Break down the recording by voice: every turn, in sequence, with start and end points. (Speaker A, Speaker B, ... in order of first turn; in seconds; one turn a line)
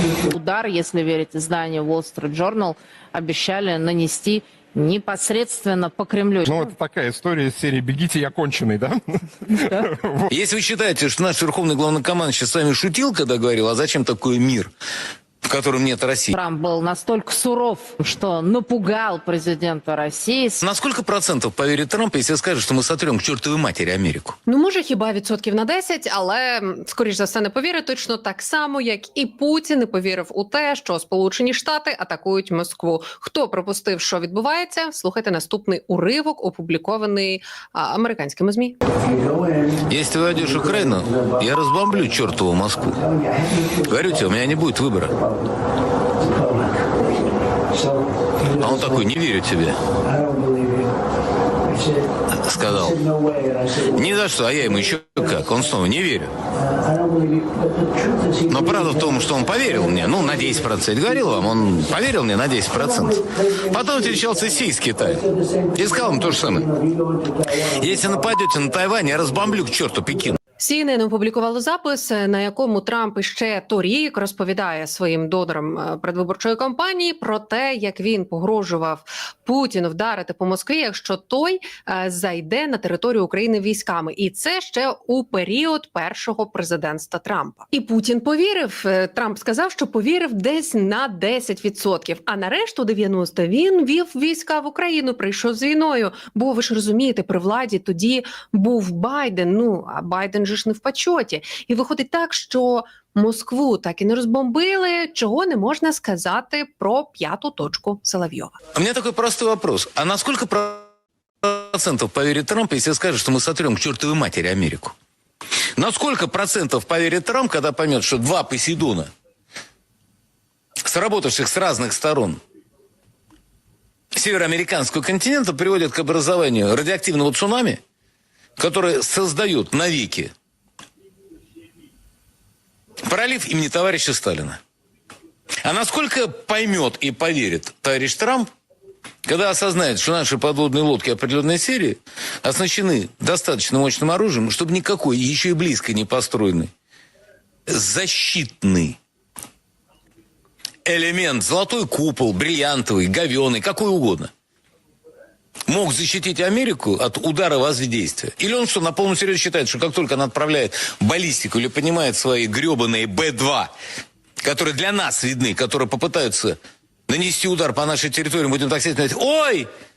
Speaker A: 0.3-6.7
Speaker B: 6.5-9.2
Speaker A: 9.5-9.9
Speaker B: 9.7-10.3
Speaker C: 10.3-14.7
Speaker C: 15.4-16.3
Speaker A: 16.3-20.6
Speaker C: 20.6-24.4
Speaker D: 24.5-38.7
Speaker C: 39.9-43.0
Speaker C: 43.8-45.1
Speaker C: 48.4-49.8
Speaker C: 52.3-53.1
Speaker C: 53.8-56.3
Speaker C: 58.4-66.8
Speaker C: 67.6-70.4
Speaker D: 70.6-108.5
Speaker C: 108.7-110.9
Speaker C: 111.4-114.9
Speaker C: 115.8-119.1
Speaker C: 120.8-122.4
Speaker C: 124.1-127.8
Speaker C: 128.6-130.3
Speaker C: 133.1-134.6
Speaker C: 135.6-138.5
Speaker C: 139.2-146.7
Speaker C: 147.7-149.0
Speaker C: 150.8-154.3
Speaker C: 155.7-163.7
Speaker C: 164.4-166.6
Speaker C: 167.1-169.7